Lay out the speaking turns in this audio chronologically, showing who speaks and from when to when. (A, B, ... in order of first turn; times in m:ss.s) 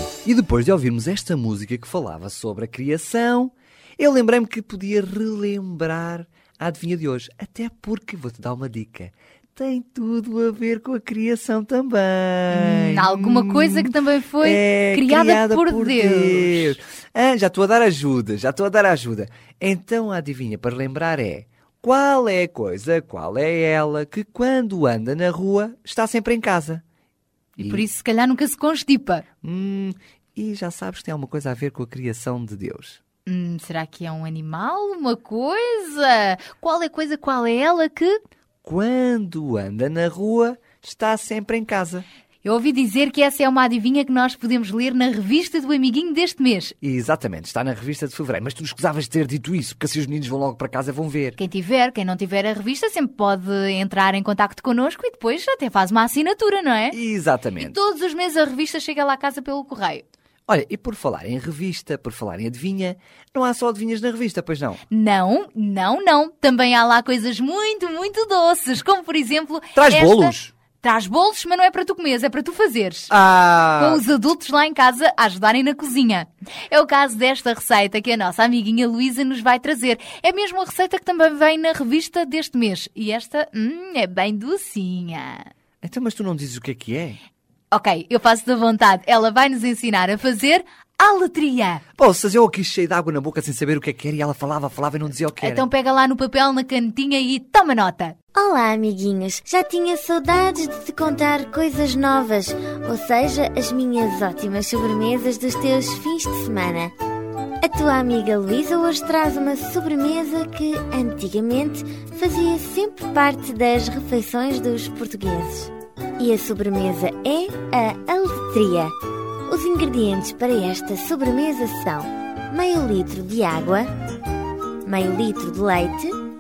0:00.2-0:13.9 A
0:12.5-0:16.8 B
0:14.4-0:26.8 A
0:27.6-0:27.9 A
0:27.6-0:29.2 B
0:29.4-0:33.0 A
0:33.3-0:38.2 B
0:38.6-0:42.1 A
0:42.4-0:46.7 B
0:46.8-0:51.4 A
0:51.4-0:57.0 B
0:56.9-0:57.8 A
0:57.6-1:00.0 B
1:00.5-1:04.8 A
1:04.9-1:13.1 B
1:09.8-1:10.5 A
1:13.1-1:14.0 A
1:13.8-1:25.5 B
1:25.8-1:27.2 A
1:27.7-1:31.8 B
1:32.0-1:35.6 A
1:35.4-1:38.2 B
1:38.4-1:46.9 C
1:47.6-1:59.0 C
1:59.5-2:03.9 C
2:04.8-2:06.2 C